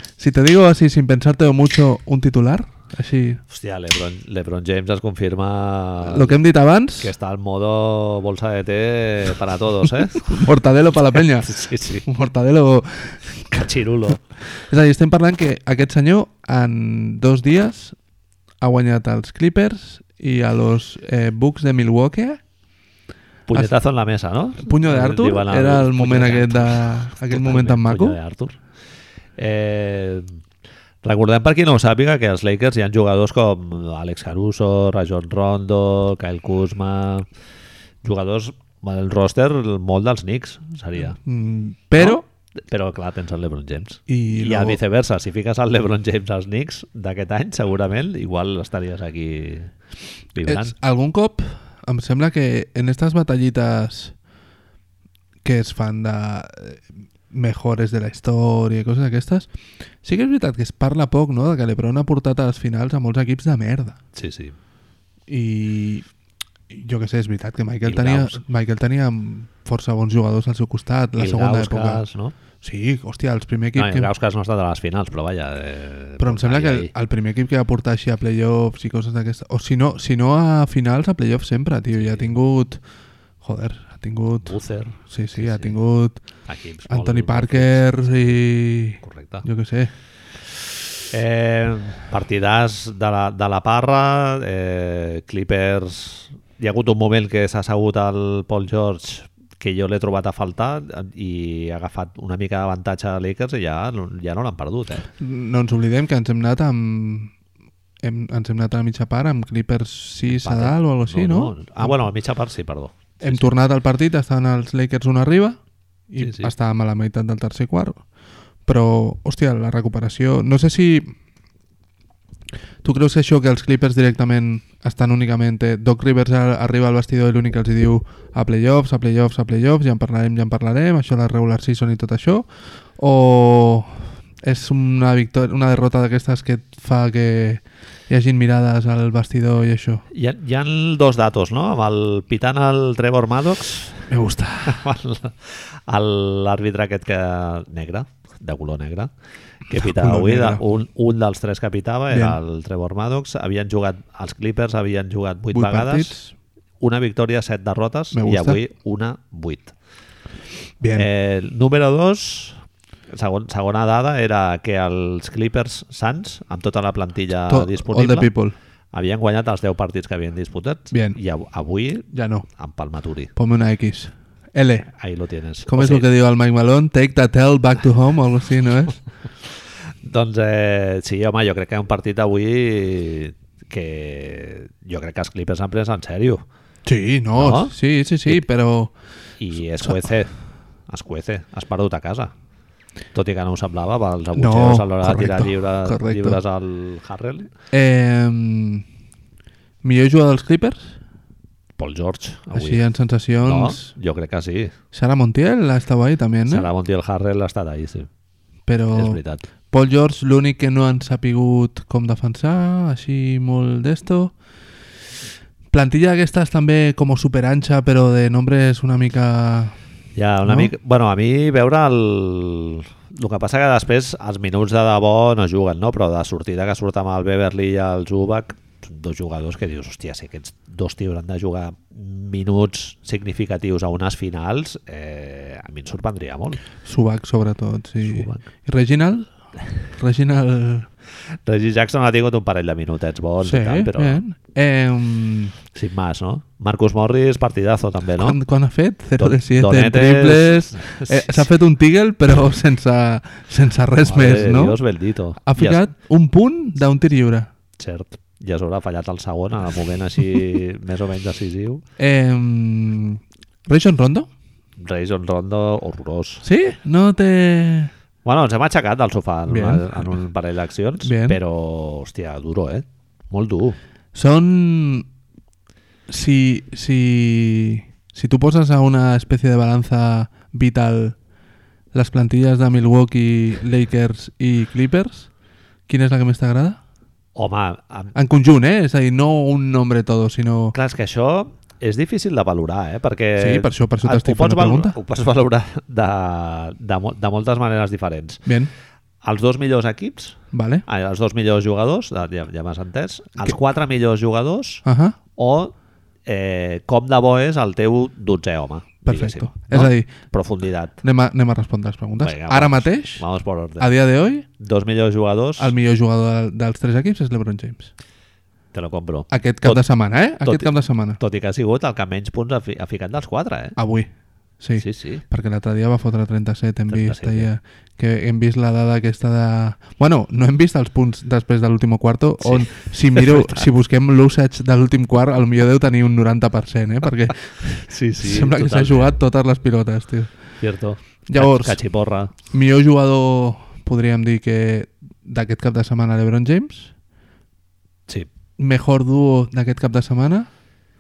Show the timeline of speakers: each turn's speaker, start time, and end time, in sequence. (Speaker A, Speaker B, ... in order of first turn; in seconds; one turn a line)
Speaker A: 0.2-3.4
Speaker B: 3.5-6.4
Speaker A: 6.1-7.1
Speaker B: 7.0-10.5
Speaker A: 10.1-13.7
Speaker B: 11.2-12.1
Speaker B: 13.5-14.2
Speaker A: 14.6-18.0
Speaker A: 18.6-22.4
Speaker B: 23.5-28.6
Speaker A: 24.6-28.2
Speaker B: 29.4-30.4
Speaker B: 31.0-37.3
Speaker B: 38.0-41.2
Speaker A: 41.2-42.2
Speaker B: 42.0-49.7
Speaker A: 44.1-44.8
Speaker B: 50.3-50.7
Speaker A: 50.5-54.1
Speaker A: 55.4-59.5
Speaker A: 60.0-64.0
Speaker B: 64.2-64.6
Speaker A: 65.3-66.1
Speaker A: 66.7-72.0
Speaker B: 67.8-68.4
Speaker B: 71.2-72.3
Speaker A: 72.6-74.1
Speaker B: 73.8-76.9
Speaker A: 76.2-82.8
Speaker B: 82.0-82.3
Speaker A: 83.4-86.2
Speaker B: 84.5-85.8
Speaker B: 86.5-88.4
Speaker A: 86.9-89.9
Speaker B: 89.0-89.5
Speaker B: 91.1-105.1
Speaker A: 105.2-107.3
Speaker A: 108.0-111.9
Speaker B: 110.3-113.5
Speaker A: 113.2-115.6
Speaker A: 116.1-118.0
Speaker B: 116.2-116.5
Speaker A: 118.7-121.1
Speaker A: 122.8-132.5
Speaker A: 133.0-140.0
Speaker B: 140.1-144.1
Speaker A: 144.1-144.8
Speaker B: 144.6-149.1
Speaker B: 149.7-156.2
Speaker A: 149.7-150.6
Speaker A: 152.1-152.4
Speaker A: 155.5-156.3
Speaker B: 156.8-159.7
Speaker A: 158.1-158.6
Speaker A: 160.8-161.1
Speaker B: 160.9-162.6
Speaker B: 163.1-168.3
Speaker A: 167.5-168.6
Speaker B: 168.9-173.3
Speaker A: 170.9-171.2
Speaker A: 172.1-172.5
Speaker A: 173.4-174.9
Speaker B: 174.9-176.1
Speaker A: 175.7-179.0
Speaker B: 180.0-186.4
Speaker A: 186.8-188.9
Speaker B: 187.4-187.7
Speaker B: 189.4-190.3
Speaker B: 190.9-192.3
Speaker B: 193.2-197.5
Speaker A: 194.3-196.4
Speaker A: 197.7-198.8
Speaker A: 199.8-201.0
Speaker B: 201.8-202.8
Speaker A: 202.5-203.9
Speaker B: 203.4-204.7
Speaker A: 204.9-206.7
Speaker B: 206.5-208.1
Speaker A: 208.7-209.2
Speaker B: 208.9-209.4
Speaker A: 209.7-214.3
Speaker A: 215.7-219.8
Speaker B: 220.2-236.6
Speaker A: 220.4-220.7
Speaker A: 236.8-239.3
Speaker B: 238.0-238.5
Speaker A: 239.9-240.9
Speaker B: 241.5-244.2
Speaker A: 243.4-245.6
Speaker B: 245.7-248.4
Speaker A: 248.2-254.8
Speaker B: 249.2-251.5
Speaker B: 254.0-255.8
Speaker A: 255.4-257.5
Speaker B: 257.8-261.8
Speaker A: 262.0-264.3
Speaker B: 264.8-266.4
Speaker A: 266.4-267.9
Speaker B: 268.2-273.8
Speaker A: 269.5-270.1
Speaker A: 271.0-271.4
Speaker A: 274.1-275.1
Speaker A: 276.1-281.2
Speaker A: 281.9-285.3
Speaker A: 285.9-286.8
Speaker B: 287.4-288.1
Speaker A: 288.1-290.8
Speaker B: 290.7-298.5
Speaker A: 293.4-295.0
Speaker A: 298.5-298.7
Speaker B: 299.2-304.9
Speaker A: 300.5-300.9
Speaker A: 304.9-305.2
Speaker B: 305.4-305.7
Speaker B: 306.3-311.0
Speaker A: 309.1-310.1
Speaker A: 311.0-313.2
Speaker B: 312.2-313.9
Speaker A: 313.8-314.5
Speaker B: 314.6-315.7
Speaker A: 315.6-317.9
Speaker B: 318.7-319.8
Speaker A: 319.3-321.2
Speaker B: 320.4-323.8
Speaker A: 323.8-324.1
Speaker A: 324.6-337.6
Speaker B: 324.8-325.2
Speaker B: 326.9-327.5
Speaker B: 332.4-333.6
Speaker B: 337.6-339.2
Speaker A: 338.1-340.3
Speaker B: 340.6-342.3
Speaker A: 341.3-341.8
Speaker A: 342.4-346.9
Speaker A: 348.6-350.5